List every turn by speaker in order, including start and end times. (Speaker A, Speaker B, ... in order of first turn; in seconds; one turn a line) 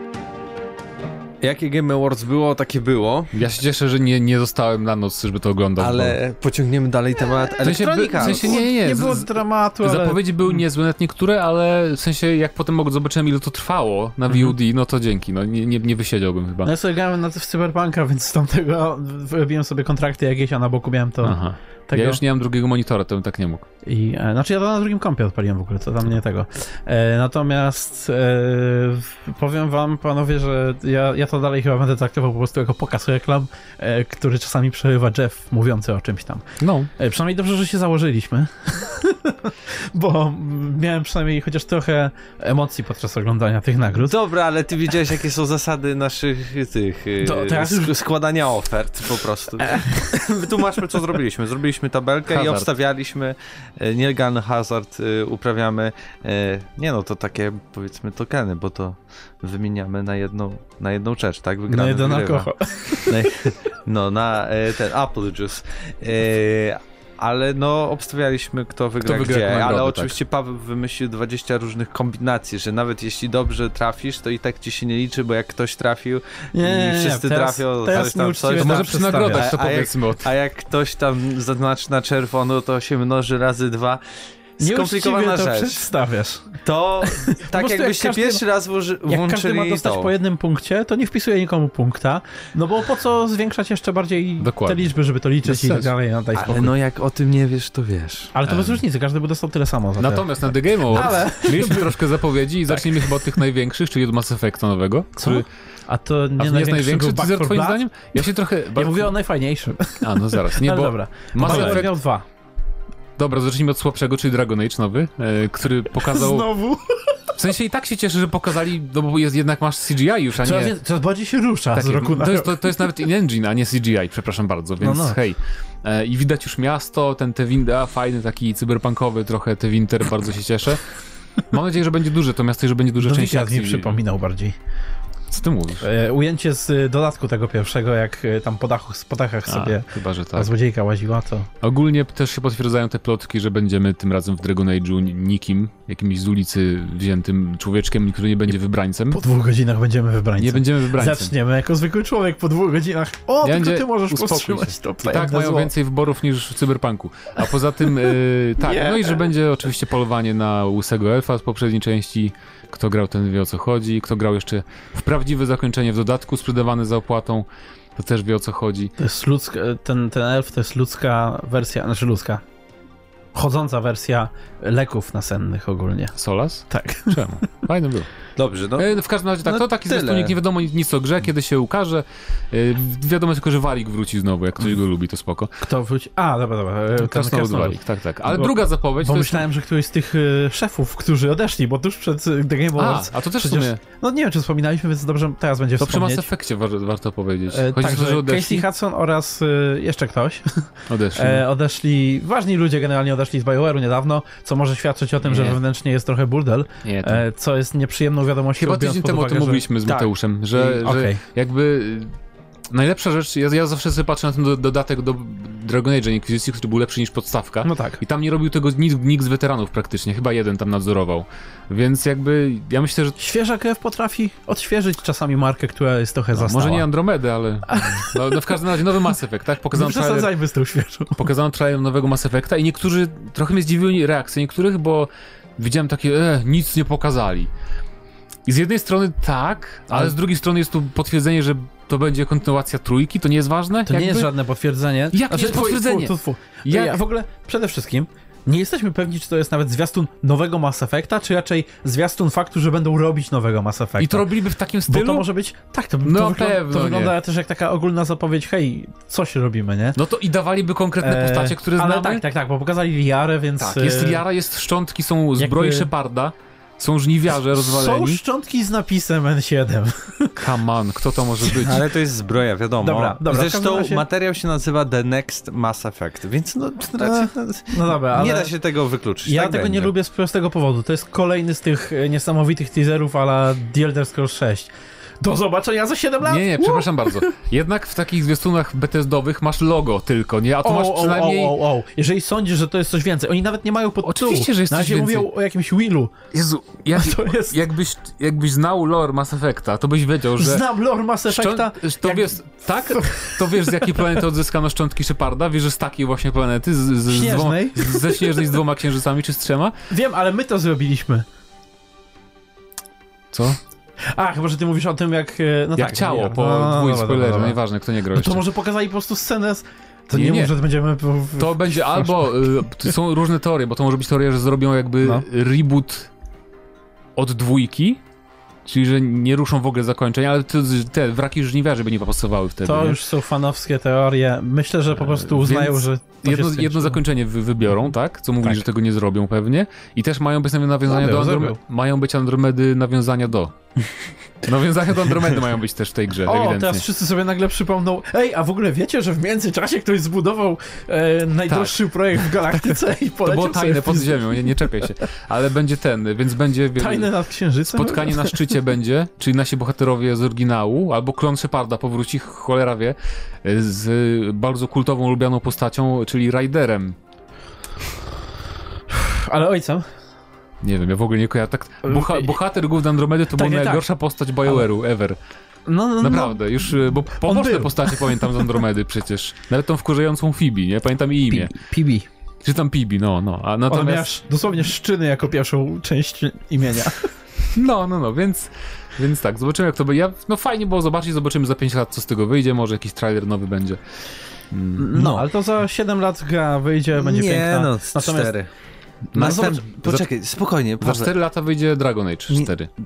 Speaker A: 1.4-3.3
Speaker B: 3.3-6.2
Speaker A: 5.8-8.6
Speaker B: 7.6-16.7
Speaker C: 7.6-10.2
Speaker C: 16.6-22.2
Speaker B: 21.2-23.6
Speaker C: 23.8-36.5
Speaker B: 36.6-36.9
Speaker C: 37.0-44.1
Speaker A: 44.0-84.0
Speaker C: 47.2-47.9
Speaker C: 49.6-50.1
Speaker B: 52.3-52.7
Speaker C: 61.7-63.3
Speaker B: 69.0-70.2
Speaker C: 76.5-79.5
Speaker B: 78.6-80.3
Speaker A: 84.6-85.9
Speaker C: 84.6-88.4
Speaker A: 86.6-90.1
Speaker C: 89.1-96.7
Speaker B: 94.4-94.9
Speaker B: 95.4-95.9
Speaker A: 96.3-98.3
Speaker C: 98.3-102.0
Speaker B: 98.5-98.8
Speaker B: 100.0-105.5
Speaker C: 102.7-103.3
Speaker C: 105.2-112.2
Speaker B: 106.4-109.1
Speaker B: 110.0-111.9
Speaker B: 113.2-116.5
Speaker C: 116.0-117.3
Speaker B: 117.3-120.7
Speaker C: 120.4-122.9
Speaker B: 121.7-130.8
Speaker C: 124.8-125.2
Speaker B: 131.5-134.0
Speaker C: 133.0-134.6
Speaker B: 135.3-135.9
Speaker C: 135.8-141.5
Speaker B: 139.5-140.5
Speaker B: 141.6-149.2
Speaker C: 149.1-155.7
Speaker B: 150.4-151.3
Speaker B: 153.4-168.9
Speaker C: 158.6-159.2
Speaker C: 169.0-172.4
Speaker C: 173.3-176.1
Speaker B: 176.1-178.1
Speaker C: 176.7-177.2
Speaker A: 178.3-178.9
Speaker B: 178.8-185.6
Speaker A: 179.4-180.4
Speaker C: 185.6-196.3
Speaker B: 187.0-189.5
Speaker B: 192.8-193.8
Speaker B: 195.8-198.7
Speaker C: 197.5-209.6
Speaker B: 200.9-201.4
Speaker B: 205.2-205.6
Speaker B: 206.8-207.2
Speaker B: 208.6-212.1
Speaker A: 209.8-210.8
Speaker C: 210.7-211.2
Speaker B: 212.7-223.2
Speaker C: 217.6-218.0
Speaker C: 223.2-226.9
Speaker B: 226.3-230.3
Speaker C: 227.7-229.0
Speaker C: 229.7-231.2
Speaker B: 231.2-237.5
Speaker B: 238.4-244.3
Speaker C: 243.9-254.3
Speaker B: 245.1-247.0
Speaker B: 254.0-255.3
Speaker C: 254.9-260.0
Speaker B: 256.0-257.1
Speaker B: 259.9-262.2
Speaker C: 261.0-264.2
Speaker B: 263.6-268.2
Speaker C: 265.4-265.9
Speaker C: 267.5-270.4
Speaker B: 270.4-271.9
Speaker A: 271.5-279.9
Speaker C: 272.8-274.0
Speaker C: 277.0-278.5
Speaker C: 279.2-284.7
Speaker C: 285.2-287.3
Speaker B: 286.2-291.6
Speaker C: 290.6-296.1
Speaker B: 294.0-295.3
Speaker B: 296.3-300.6
Speaker C: 296.9-297.6
Speaker C: 300.4-304.2
Speaker B: 301.3-309.7
Speaker C: 307.1-308.5
Speaker C: 309.9-311.2
Speaker B: 313.3-313.6
Speaker C: 314.1-317.6
Speaker B: 315.8-318.4
Speaker C: 318.1-322.7
Speaker B: 320.1-320.5
Speaker B: 321.4-326.1
Speaker B: 327.1-328.0
Speaker B: 328.6-333.0
Speaker C: 332.6-337.0
Speaker B: 334.9-343.5
Speaker C: 340.9-341.6
Speaker B: 344.4-346.8
Speaker C: 346.2-354.8
Speaker B: 351.5-357.1
Speaker C: 356.8-358.5
Speaker B: 357.7-366.9
Speaker C: 368.9-369.9
Speaker B: 370.6-375.2
Speaker C: 371.8-372.4
Speaker C: 373.3-373.9
Speaker C: 375.6-378.4
Speaker B: 376.0-381.5
Speaker C: 381.3-382.1
Speaker B: 382.4-384.1
Speaker C: 383.7-387.1
Speaker B: 387.5-393.8
Speaker B: 394.5-395.2
Speaker C: 394.8-398.3
Speaker A: 397.0-398.5
Speaker B: 399.1-400.1
Speaker A: 399.1-401.1
Speaker C: 399.1-399.6
Speaker B: 400.8-402.7